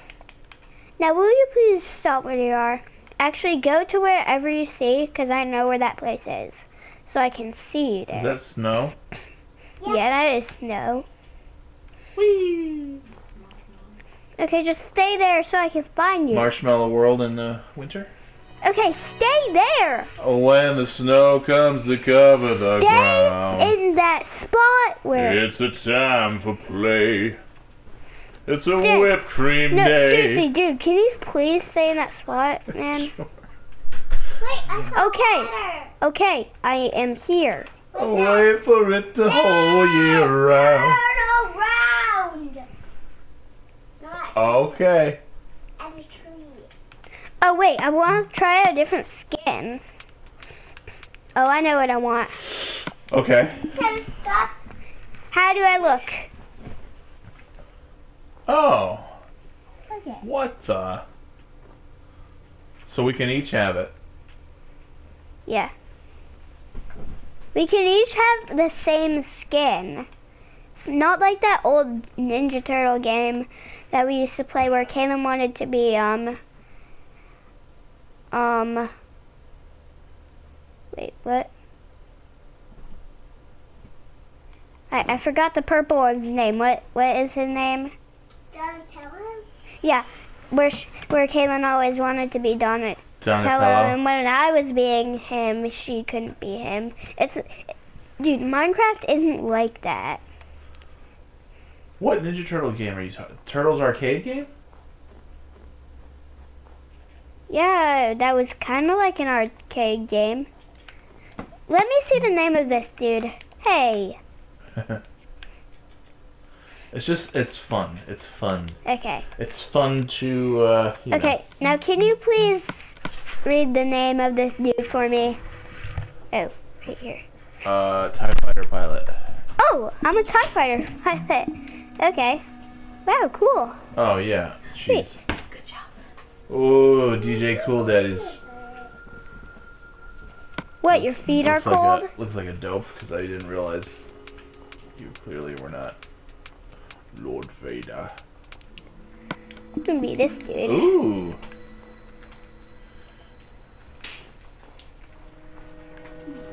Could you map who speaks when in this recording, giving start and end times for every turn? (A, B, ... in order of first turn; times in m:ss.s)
0:01.0-0:08.4 A
0:08.1-0:09.0 B
0:09.8-0:11.0 A
0:12.2-0:13.0 B
0:14.4-0:16.5 A
0:16.3-0:18.1 B
0:18.6-0:20.1 A
0:20.2-0:23.7 B
0:22.8-0:25.4 A
0:25.1-0:27.4 B
0:28.4-0:30.4 B
0:28.8-0:29.2 A
0:29.7-0:33.1 A
0:32.8-0:33.3 B
0:34.4-0:35.9 C
0:34.9-0:37.7 A
0:37.9-0:38.5 C
0:38.0-0:41.0 B
0:39.2-0:42.6 C
0:44.0-0:44.7 C
0:44.3-0:45.2 B
0:45.8-0:46.7 C
0:47.4-0:49.8 A
0:51.4-0:52.4 A
0:53.1-0:53.6 B
0:53.7-0:54.5 C
0:55.3-0:56.3 A
0:58.5-0:59.1 B
0:59.9-1:00.2 C
1:00.2-1:01.0 B
1:02.9-1:03.9 B
1:05.4-1:05.7 A
1:07.5-1:10.1 A
1:10.8-1:16.4 A
1:18.3-1:18.9 A
1:20.9-1:21.5 A
1:24.9-1:27.9 A
1:28.5-1:29.4 C
1:29.8-1:40.2 A
1:33.2-1:34.0 B
1:42.0-1:44.5 B
1:47.5-1:50.5 A
1:51.7-1:54.2 A
1:54.8-1:55.0 B
1:56.9-1:58.8 B
1:58.8-1:59.2 A
1:59.4-2:01.4 B
2:01.1-2:02.8 A
2:03.4-2:05.4 A
2:06.3-2:07.2 A
2:07.6-2:09.2 B
2:09.6-2:12.4 A
2:13.0-2:13.8 A
2:13.9-2:15.2 B
2:14.8-2:15.1 A
2:16.5-2:18.4 B
2:17.7-2:18.4 C
2:20.8-2:22.1 A
2:20.9-2:24.1 B
2:25.0-2:26.0 B
2:27.1-2:28.2 B
2:29.8-2:30.9 A
2:30.6-2:31.4 B